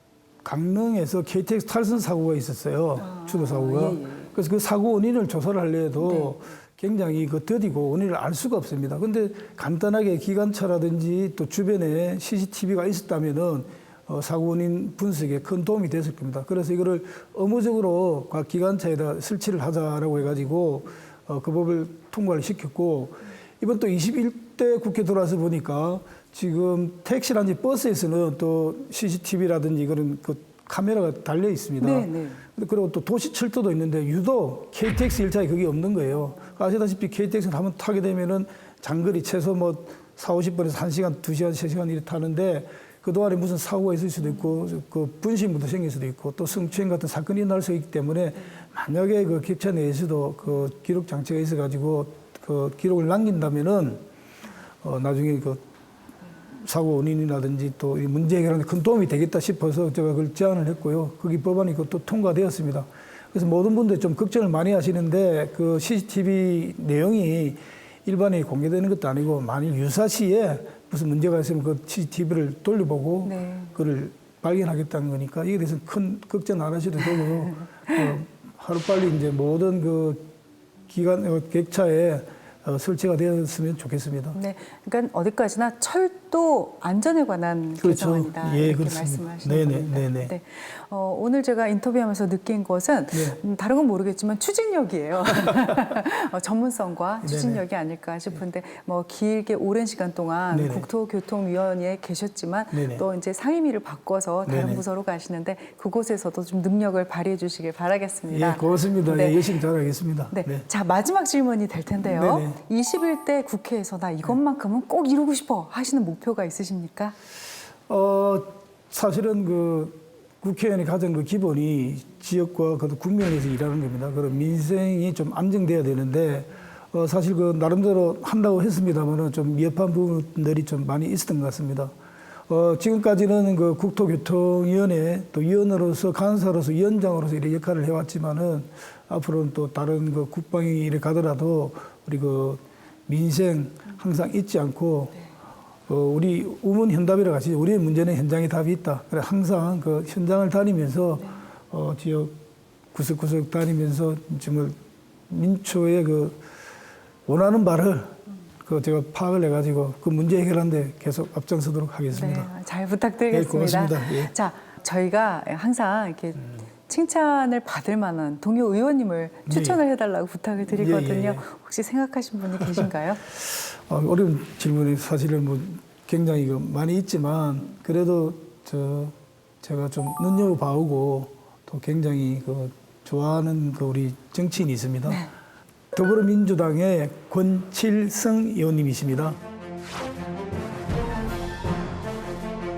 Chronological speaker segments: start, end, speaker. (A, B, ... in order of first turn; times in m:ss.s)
0:00.4-0:54.0 A
0:03.0-0:04.3 B
0:06.0-0:06.4 B
0:31.8-0:32.4 B
0:54.8-0:55.6 A
0:56.5-1:20.3 A
1:13.2-1:13.7 B
1:20.9-1:24.4 A
1:24.4-1:49.6 B
1:27.8-1:30.3 A
1:33.1-1:33.4 A
1:37.2-1:37.6 A
1:40.5-1:40.9 A
1:42.7-1:43.0 A
1:44.5-1:44.8 A
1:48.3-1:50.6 A
1:50.3-1:57.2 B
1:52.0-1:52.6 A
1:57.9-2:11.9 A
2:12.5-2:25.2 A
2:25.9-2:32.4 A
2:32.9-2:34.8 A
2:35.3-2:36.4 A
2:37.3-2:42.5 A
2:42.1-2:53.2 B
2:43.3-2:44.3 A
2:49.5-2:49.8 A
2:50.6-2:51.5 A
2:52.6-3:05.2 A
3:05.9-3:09.4 A